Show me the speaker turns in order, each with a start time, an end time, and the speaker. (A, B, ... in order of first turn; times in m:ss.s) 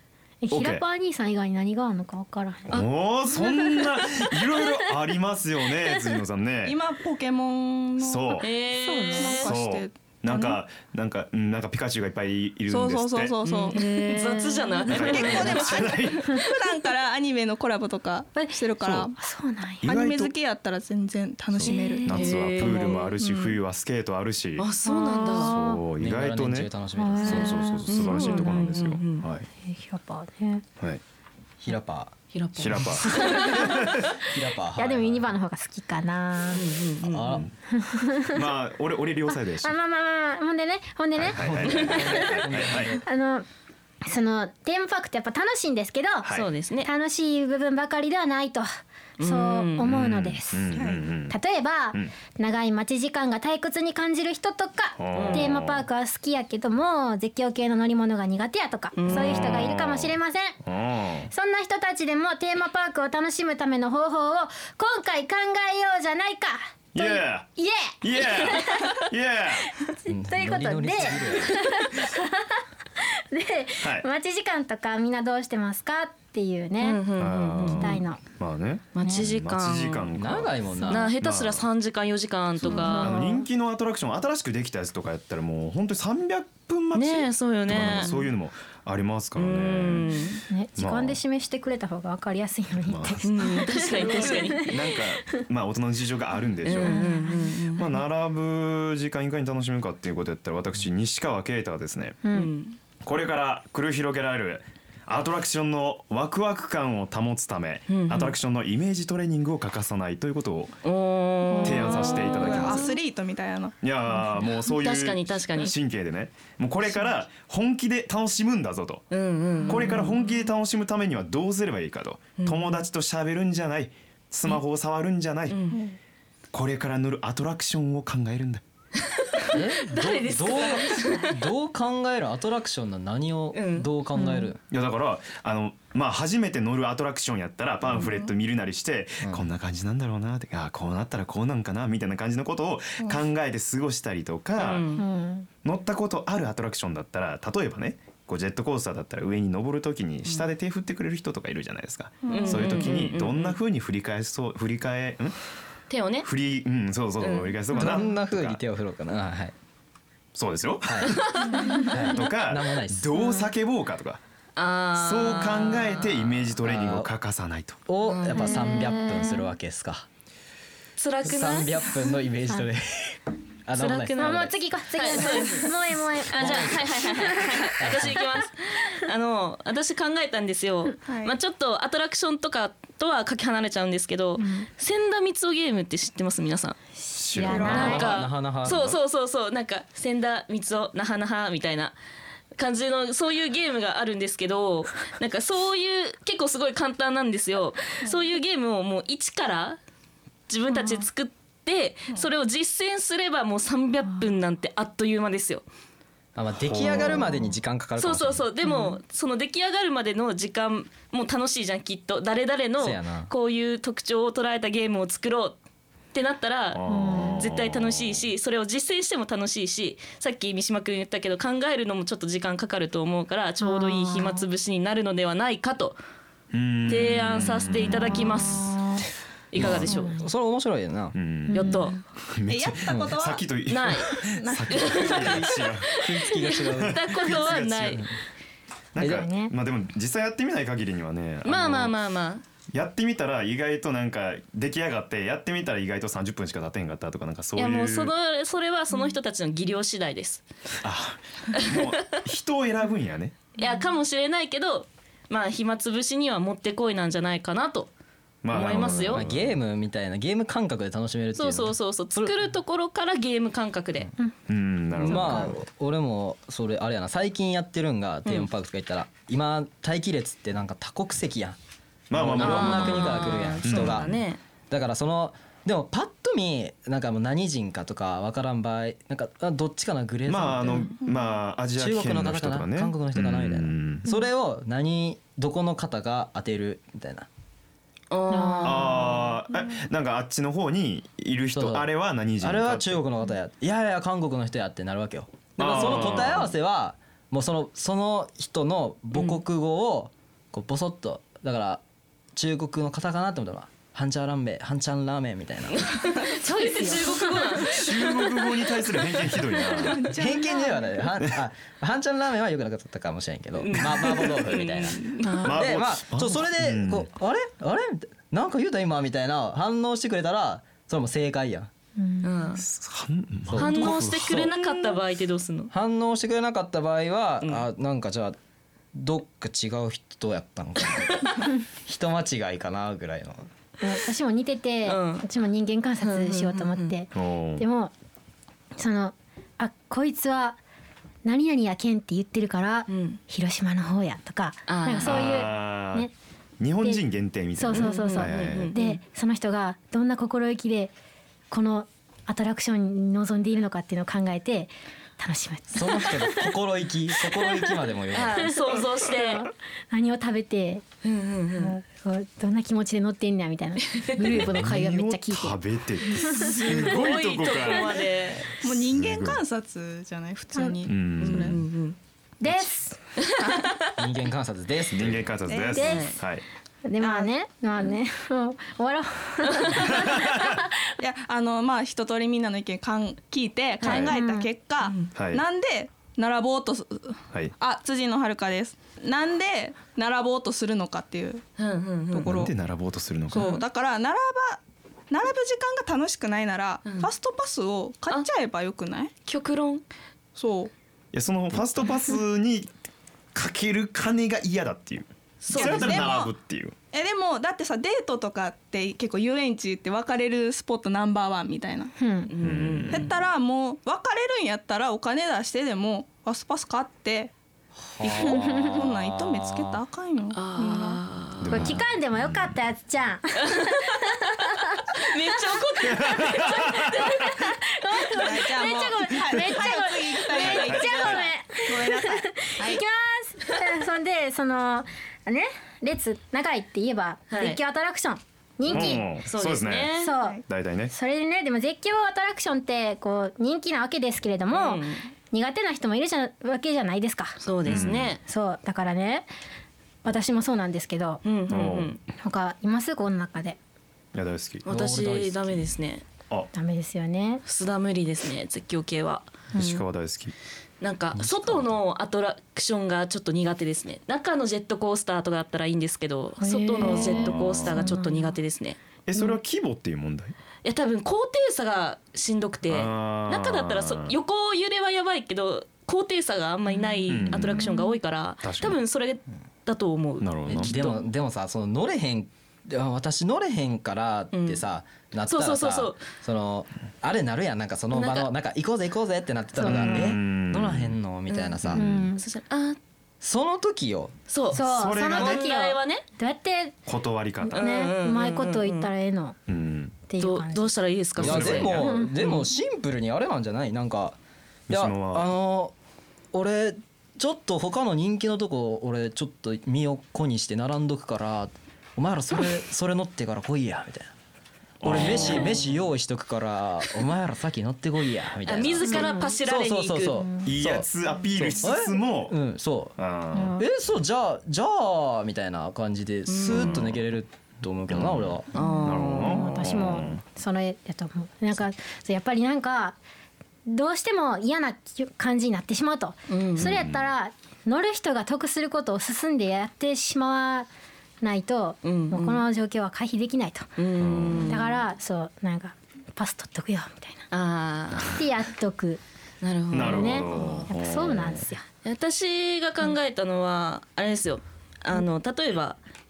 0:00.4-0:02.8 A
0:00.5-0:00.8 B
0:02.7-0:06.8 B
0:03.4-0:04.7 A
0:06.6-0:08.4 C
0:08.0-0:08.5 B
0:08.4-0:09.5 D
0:08.8-0:09.5 A
0:09.1-0:10.6 C
0:09.4-0:13.4 B
0:12.7-0:19.2 C
0:13.4-0:15.9 D
0:13.8-0:14.9 A
0:14.9-0:16.5 B
0:19.1-0:19.9 A
0:19.8-0:20.3 B
0:19.8-0:23.6 C
0:21.5-0:24.7 B
0:21.7-0:22.1 A
0:21.7-0:23.1 D
0:24.6-0:25.6 D
0:24.8-0:25.8 A
0:25.3-0:29.5 B
0:26.0-0:27.7 E
0:27.0-0:28.8 A
0:27.9-0:29.2 D
0:29.6-0:30.6 A
0:31.6-0:32.2 E
0:32.3-0:33.7 D
0:32.6-0:34.2 B
0:32.7-0:33.0 E
0:33.0-0:34.0 A
0:34.2-0:35.4 E
0:34.8-0:36.7 A
0:36.5-0:37.4 D
0:37.0-0:37.5 E
0:37.2-0:37.5 B
0:37.7-0:38.5 A
0:38.3-0:39.7 B
0:39.3-0:42.1 A
0:41.2-0:43.0 B
0:41.3-0:43.0 E
0:41.8-0:42.2 D
0:43.0-0:43.4 A
0:44.0-0:46.3 A
0:46.3-0:46.9 D
0:46.8-0:48.7 A
0:49.2-0:49.9 D
0:49.2-0:50.8 A
0:49.8-0:51.4 B
0:50.7-0:51.0 C
0:51.3-1:00.6 A
0:55.0-0:55.8 B
0:55.1-0:55.5 D
0:58.9-0:59.7 D
0:59.1-1:01.3 B
1:01.3-1:09.0 A
1:06.9-1:07.5 B
1:08.0-1:09.8 B
1:09.8-1:17.0 A
1:10.1-1:11.7 E
1:16.8-1:18.0 D
1:17.2-1:20.6 B
1:17.6-1:18.2 A
1:18.9-1:20.1 D
1:20.1-1:21.1 E
1:20.8-1:21.1 A
1:20.9-1:23.3 D
1:21.2-1:21.6 B
1:22.6-1:23.4 A
1:22.9-1:30.1 B
1:26.9-1:28.2 D
1:29.4-1:30.4 D
1:30.5-1:35.4 A
1:30.8-1:31.2 B
1:32.8-1:37.1 B
1:33.2-1:34.8 D
1:36.6-1:37.9 D
1:36.7-1:37.6 A
1:37.7-1:42.2 B
1:42.2-1:42.5 A
1:42.3-1:42.8 D
1:43.0-1:50.8 B
1:47.9-1:48.4 D
1:50.8-1:52.9 D
1:51.5-1:52.4 A
1:51.6-1:52.9 B
1:51.8-1:53.8 C
1:53.8-1:59.1 B
1:54.1-1:55.8 D
1:59.1-2:00.2 D
1:59.7-2:05.6 B
2:02.4-2:02.8 D
2:05.5-2:05.8 D
2:06.5-2:08.6 B
2:09.1-2:11.3 D
2:09.5-2:14.6 E
2:13.5-2:13.9 D
2:14.2-2:14.4 A
2:14.7-2:24.9 B
2:18.0-2:18.3 C
2:24.6-2:25.0 D
2:25.0-2:25.5 A
2:25.6-2:35.4 B
2:32.2-2:33.0 C
2:32.3-2:33.6 D
2:35.9-2:36.3 D
2:36.2-2:38.6 B
2:37.2-2:38.0 D
2:37.7-2:39.5 E
2:40.3-2:44.2 B
2:40.8-2:41.2 E
2:41.1-2:41.5 D
2:41.6-2:41.9 A
2:41.8-2:43.1 E
2:43.2-2:43.5 A
2:44.6-2:46.5 D
2:44.9-2:47.8 B
2:46.6-2:47.1 E
2:47.9-2:50.1 E
2:48.1-2:49.2 D
2:48.3-2:49.4 A
2:51.0-2:52.1 D
2:51.2-2:54.6 E
2:53.7-2:55.7 D
2:54.2-2:57.7 A
2:55.2-2:55.5 E
2:56.2-2:56.9 E
2:56.3-3:06.8 D
2:57.8-2:58.2 E
3:01.0-3:01.3 C
3:04.4-3:04.7 A
3:07.2-3:08.1 B
3:07.2-3:08.0 A
3:07.4-3:09.0 E
3:07.4-3:08.0 C
3:07.6-3:11.9 D
3:12.6-3:19.8 D
3:20.5-3:25.6 D
3:26.4-3:28.4 E
3:26.6-3:27.4 B
3:28.0-3:35.6 D
3:28.6-3:29.0 A
3:32.8-3:33.3 E
3:36.1-3:46.0 D
3:36.7-3:38.2 B
3:36.9-3:37.4 A
3:43.6-3:44.4 A
3:46.5-3:48.6 B
3:46.9-3:48.9 D
3:48.1-3:49.0 A
3:49.5-3:50.2 D
3:49.6-3:51.2 E
3:49.6-3:49.9 B
3:49.9-3:50.2 A
3:51.1-3:56.1 B
3:51.5-3:52.0 A
3:51.5-3:52.0 D
3:52.5-3:53.5 C
3:52.9-3:53.2 E
3:53.7-3:58.1 D
3:54.2-3:55.4 C
3:55.1-3:58.2 E
3:56.6-3:58.0 B
3:58.9-4:01.9 B
3:59.0-3:59.3 E
3:59.0-3:59.5 A
4:01.4-4:02.4 D
4:02.7-4:08.1 B
4:07.6-4:10.4 D
4:10.8-4:13.4 B
4:11.5-4:11.8 D
4:13.6-4:17.9 D
4:18.4-4:19.5 B
4:18.5-4:19.2 D
4:18.6-4:22.4 E
4:21.4-4:24.1 D
4:24.5-4:25.6 B
4:25.0-4:31.6 E
4:25.1-4:25.5 A
4:32.1-4:34.1 B
4:32.1-4:34.2 E
4:32.3-4:34.4 D
4:34.7-4:40.9 E
4:40.3-4:44.1 B
4:41.0-4:41.4 C
4:41.7-4:47.3 E
4:48.1-4:49.4 D
4:48.3-4:49.2 A
4:48.6-4:53.0 B
4:51.5-5:01.8 E
4:55.6-4:56.5 B
4:55.8-4:56.0 D
4:59.1-4:59.4 D
5:02.3-5:05.9 E
5:05.7-5:09.5 D
5:06.3-5:08.1 A
5:07.6-5:10.2 B
5:09.7-5:10.9 C
5:10.1-5:21.7 E
5:13.6-5:15.6 D
5:15.2-5:15.5 A
5:15.4-5:17.1 B
5:22.0-5:22.6 A
5:22.2-5:22.6 D
5:22.6-5:24.5 B
5:23.5-5:24.5 E
5:23.5-5:25.7 D
5:25.7-5:28.4 E
5:28.9-5:33.5 E
5:33.8-5:37.9 A
5:34.8-5:35.2 D
5:36.0-5:36.9 D
5:37.1-5:37.6 B
5:38.8-5:40.6 A
5:41.2-5:46.1 A
5:42.9-5:43.2 D
5:44.7-5:45.4 D
5:45.0-5:46.1 B
5:46.6-5:48.7 B
5:47.6-5:50.9 A
5:47.7-5:49.0 D
5:51.5-5:56.6 A
5:55.7-5:58.5 E
5:57.4-5:57.7 A
5:58.1-5:59.5 D
5:58.6-6:00.8 A
6:01.0-6:01.7 D
6:01.6-6:06.6 A
6:03.9-6:04.5 D
6:04.2-6:08.0 B
6:06.3-6:08.6 D
6:08.5-6:11.6 C
6:08.7-6:09.4 B
6:10.8-6:11.6 B
6:11.2-6:12.0 D
6:12.4-6:13.0 A
6:13.2-6:14.0 D
6:14.0-6:15.3 E
6:14.9-6:16.4 B
6:15.5-6:16.1 C
6:15.7-6:16.1 A
6:15.8-6:16.2 D
6:16.8-6:20.7 A
6:17.0-6:17.3 C
6:19.5-6:19.7 D
6:19.7-6:20.6 B
6:21.0-6:31.4 C
6:23.8-6:24.1 D
6:23.8-6:24.1 B
6:23.8-6:24.5 A
6:24.8-6:25.1 D
6:25.1-6:25.4 B
6:31.6-6:32.3 D
6:32.1-6:32.5 C
6:32.2-6:33.6 B
6:33.3-6:39.1 C
6:33.3-6:33.6 D
6:36.8-6:37.1 D
6:39.3-6:39.8 D
6:40.4-6:40.7 C
6:41.1-6:42.7 B
6:43.3-6:46.7 B
6:45.4-6:46.2 D
6:45.5-6:46.3 C
6:46.9-6:51.9 C
6:52.0-6:52.3 A
6:52.3-6:53.1 D
6:52.4-6:53.1 B
6:52.9-6:57.3 C
6:57.8-6:59.8 E
6:58.1-7:01.0 C
6:58.2-6:58.8 A
7:00.3-7:01.8 D
7:01.4-7:02.5 B
7:01.5-7:19.1 A
7:03.4-7:04.1 D
7:04.9-7:07.2 D
7:05.8-7:07.3 B
7:08.1-7:12.8 C
7:10.4-7:11.2 B
7:17.3-7:17.6 D
7:18.7-7:20.9 B
7:18.7-7:20.2 D
7:20.0-7:20.4 A
7:20.9-7:29.3 A
7:24.5-7:25.1 D
7:27.4-7:28.2 D
7:27.6-7:28.2 B
7:30.0-7:31.2 A
7:31.2-7:32.0 D
7:31.5-7:31.9 B
7:32.1-7:33.6 A
7:34.1-7:34.6 B
7:34.6-7:36.0 D
7:34.7-7:35.7 E
7:36.5-7:37.4 A
7:37.4-7:39.4 D
7:39.5-7:39.8 A
7:39.6-7:40.3 B
7:40.8-7:48.8 D
7:41.2-7:41.7 E
7:46.4-7:48.3 A
7:46.8-7:47.9 B
7:49.1-7:50.3 B
7:50.6-8:01.0 D
7:52.7-7:54.2 B
7:56.8-7:57.9 A
7:57.1-7:57.7 B
7:58.4-7:58.8 B
8:00.2-8:00.7 B
8:00.4-8:12.0 E
8:04.3-8:04.6 D
8:05.3-8:06.0 D
8:07.9-8:08.3 D
8:09.6-8:10.2 A
8:09.6-8:11.0 B
8:11.3-8:12.8 D
8:11.7-8:12.2 A
8:13.2-8:14.2 E
8:14.3-8:16.0 D
8:14.5-8:16.8 A
8:14.6-8:15.5 B
8:16.9-8:17.6 B
8:17.4-8:19.4 A
8:17.5-8:18.9 D
8:19.5-8:20.0 B
8:20.1-8:20.8 A
8:20.2-8:22.5 D
8:21.2-8:22.0 B
8:21.2-8:24.2 E
8:21.7-8:22.1 A
8:24.7-8:25.3 B
8:24.7-8:25.7 E
8:26.3-8:34.1 E
8:34.8-8:35.6 B
8:34.8-8:43.0 E
8:34.9-8:35.6 D
8:38.4-8:40.3 D
8:38.8-8:39.4 A
8:40.4-8:42.4 B
8:43.0-8:43.6 B
8:43.3-8:43.6 A
8:43.5-8:48.5 E
8:46.3-8:46.8 D
8:46.4-8:47.0 B
8:47.9-8:50.2 B
8:48.5-8:49.6 D
8:48.6-8:53.0 A
8:53.7-9:00.7 A
8:56.3-8:56.8 D
8:56.6-8:57.1 B
9:01.2-9:03.7 A
9:01.8-9:02.4 D
9:03.8-9:04.7 D
9:04.0-9:04.8 B
9:04.3-9:07.3 A
9:07.3-9:08.2 D
9:08.0-9:09.0 A
9:09.4-9:10.6 D
9:09.7-9:11.4 B
9:09.7-9:11.6 A
9:11.8-9:15.8 D